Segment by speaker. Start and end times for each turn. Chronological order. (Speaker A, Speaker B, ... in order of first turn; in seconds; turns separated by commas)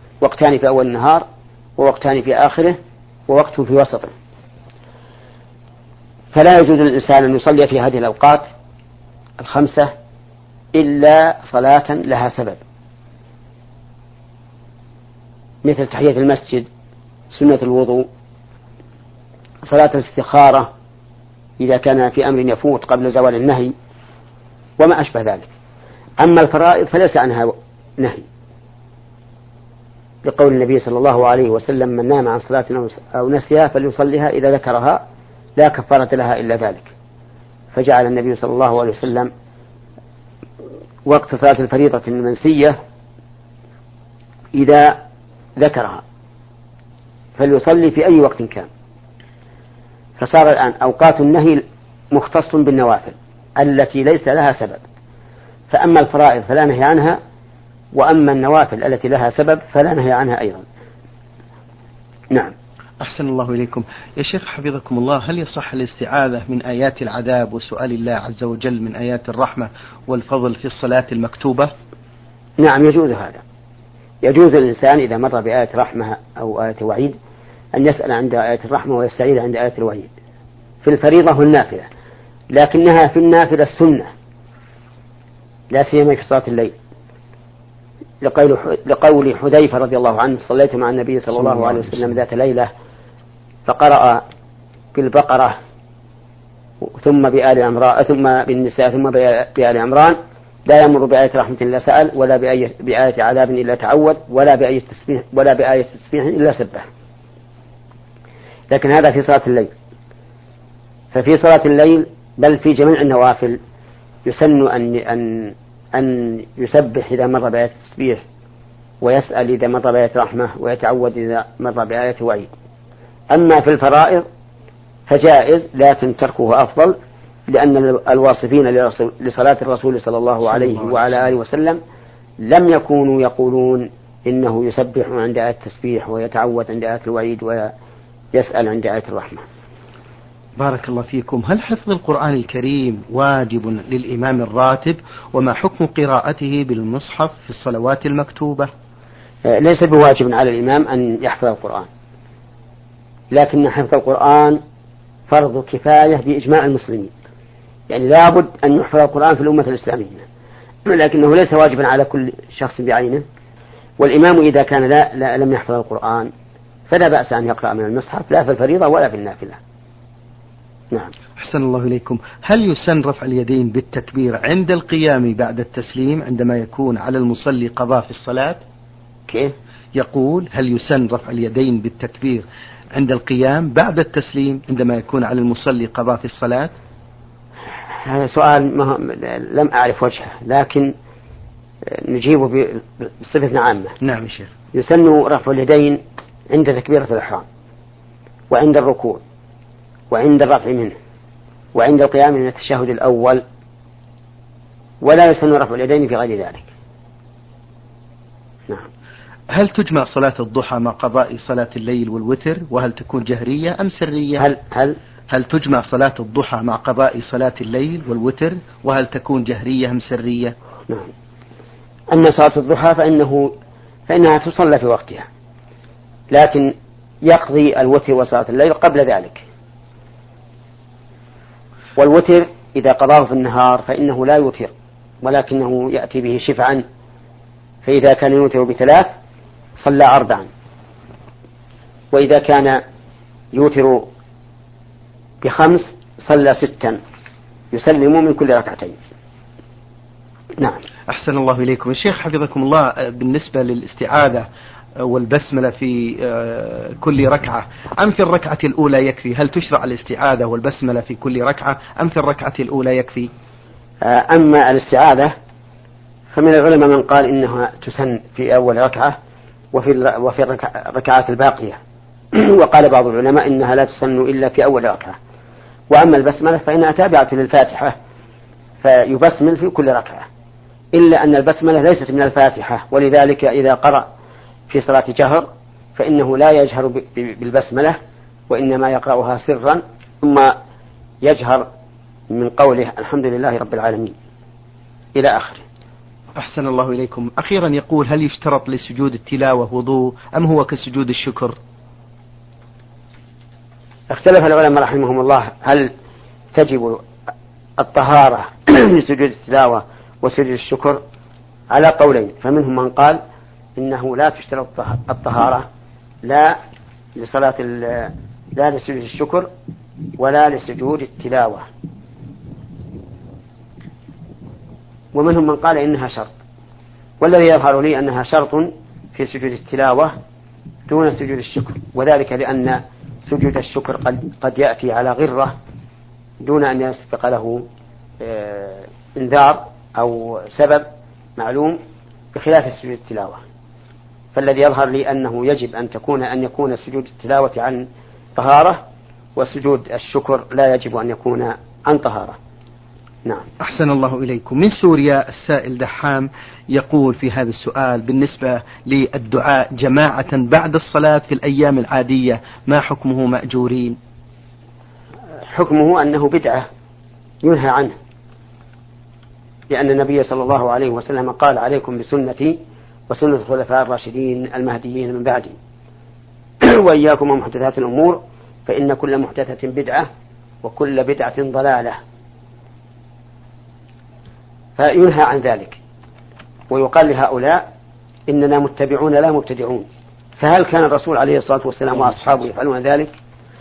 Speaker A: 0.2-1.2, Speaker A: 1.8-2.8, Speaker A: 3.3-4.1, Speaker A: 6.3-8.5, Speaker A: 9.4-9.9, Speaker A: 10.7-12.6, Speaker A: 15.6-16.7, Speaker A: 17.3-18.1, Speaker A: 19.6-20.7, Speaker A: 21.6-23.7, Speaker A: 24.8-25.5, Speaker A: 26.2-28.2, Speaker A: 30.2-35.0, Speaker A: 35.6-36.9, Speaker A: 37.7-39.3, Speaker A: 41.1-42.8, Speaker A: 44.5-45.0, Speaker A: 45.6-46.0, Speaker A: 47.4-48.7, Speaker A: 50.2-54.8, Speaker A: 55.7-57.2, Speaker A: 57.9-60.6, Speaker B: 63.0-71.7, Speaker A: 72.6-73.4, Speaker A: 74.2-77.2, Speaker A: 77.7-80.1, Speaker A: 80.8-81.9, Speaker A: 82.5-84.1, Speaker A: 85.7-86.7, Speaker A: 88.2-92.7, Speaker A: 93.7-94.2, Speaker A: 94.9-95.6, Speaker A: 96.8-106.9, Speaker A: 108.7-109.7, Speaker A: 111.1-113.6, Speaker A: 114.2-118.2, Speaker A: 119.0-122.5, Speaker A: 123.3-124.2, Speaker A: 125.1-127.0, Speaker A: 127.5-131.8, Speaker B: 130.5-131.0, Speaker A: 132.4-137.7, Speaker A: 138.3-139.5, Speaker B: 140.6-148.7, Speaker A: 149.4-151.9, Speaker A: 153.3-154.6, Speaker A: 155.3-157.1, Speaker A: 157.9-160.2, Speaker A: 160.9-163.2, Speaker A: 164.0-166.3, Speaker A: 166.9-169.6, Speaker B: 171.4-178.6, Speaker A: 179.3-179.5, Speaker B: 179.9-186.7, Speaker A: 187.9-190.9, Speaker A: 191.9-194.0, Speaker B: 194.0-194.5, Speaker A: 194.7-197.4, Speaker A: 198.5-199.2, Speaker A: 200.1-200.9, Speaker A: 201.8-203.4, Speaker A: 205.0-206.7, Speaker B: 209.5-214.5, Speaker A: 214.4-215.0, Speaker B: 215.3-220.6, Speaker A: 222.1-223.5, Speaker A: 224.1-225.3, Speaker A: 226.3-226.7, Speaker A: 227.2-229.4, Speaker A: 232.0-234.7, Speaker A: 235.2-236.8, Speaker A: 237.8-239.1, Speaker A: 239.8-240.5, Speaker A: 242.1-242.8, Speaker A: 243.5-244.1, Speaker A: 245.4-247.0, Speaker A: 247.7-249.0, Speaker A: 250.6-250.8, Speaker B: 251.1-254.5, Speaker B: 255.0-263.3, Speaker A: 264.0-265.3, Speaker A: 266.3-269.2, Speaker A: 269.7-271.8, Speaker A: 272.3-275.2, Speaker A: 275.9-277.9, Speaker A: 278.8-280.3, Speaker A: 280.9-284.1, Speaker A: 284.7-288.0, Speaker A: 288.5-290.5, Speaker A: 291.2-291.7, Speaker A: 292.3-294.1, Speaker A: 295.1-295.6, Speaker B: 296.4-301.6, Speaker A: 304.1-305.9, Speaker A: 306.5-307.0, Speaker A: 307.8-311.0, Speaker A: 311.7-313.2, Speaker A: 313.8-315.7, Speaker A: 316.2-316.6, Speaker A: 317.2-319.5, Speaker A: 320.2-321.7, Speaker A: 325.1-326.3, Speaker A: 327.2-330.2, Speaker A: 330.9-335.6, Speaker A: 336.4-337.7, Speaker A: 338.2-341.8, Speaker A: 342.3-343.4, Speaker A: 344.4-348.8, Speaker A: 349.4-352.4, Speaker B: 353.6-364.0, Speaker A: 365.4-366.7, Speaker A: 367.4-367.9, Speaker A: 369.7-375.6, Speaker A: 376.6-380.1, Speaker A: 380.6-382.0, Speaker A: 384.8-385.8, Speaker A: 386.7-387.6, Speaker A: 388.3-389.9, Speaker A: 390.4-393.1